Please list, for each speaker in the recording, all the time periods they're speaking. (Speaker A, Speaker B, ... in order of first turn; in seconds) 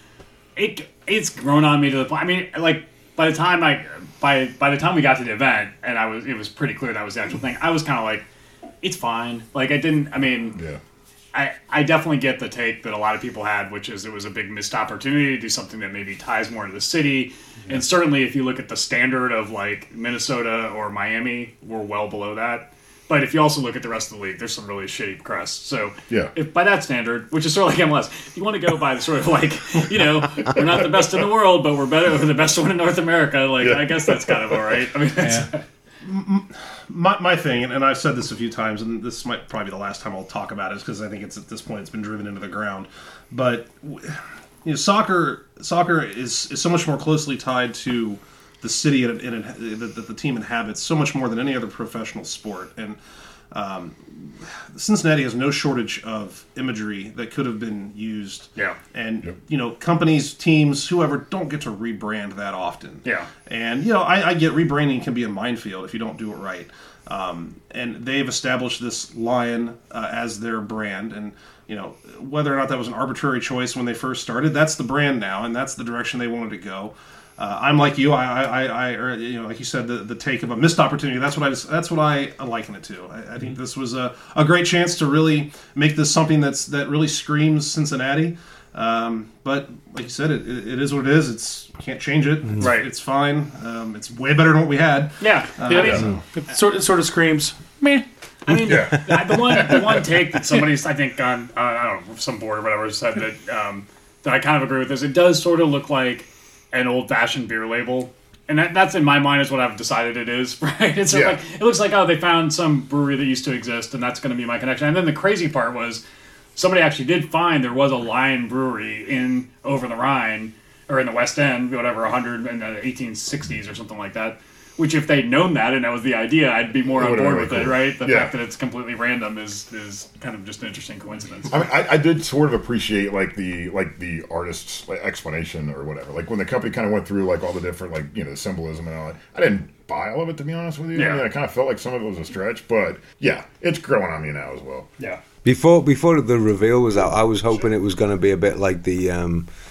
Speaker A: 0.6-8.3, 8.8-10.6, 11.3-35.6, 92.6-92.9, 95.2-96.2, 98.5-116.0, 116.6-131.6, 140.9-141.2
Speaker B: 33.6-34.4, 98.6-99.8, 111.1-111.4, 126.9-128.3, 131.5-144.9
Speaker C: 36.0-53.0, 53.5-96.1
Speaker D: 95.7-98.0
Speaker E: 145.4-149.5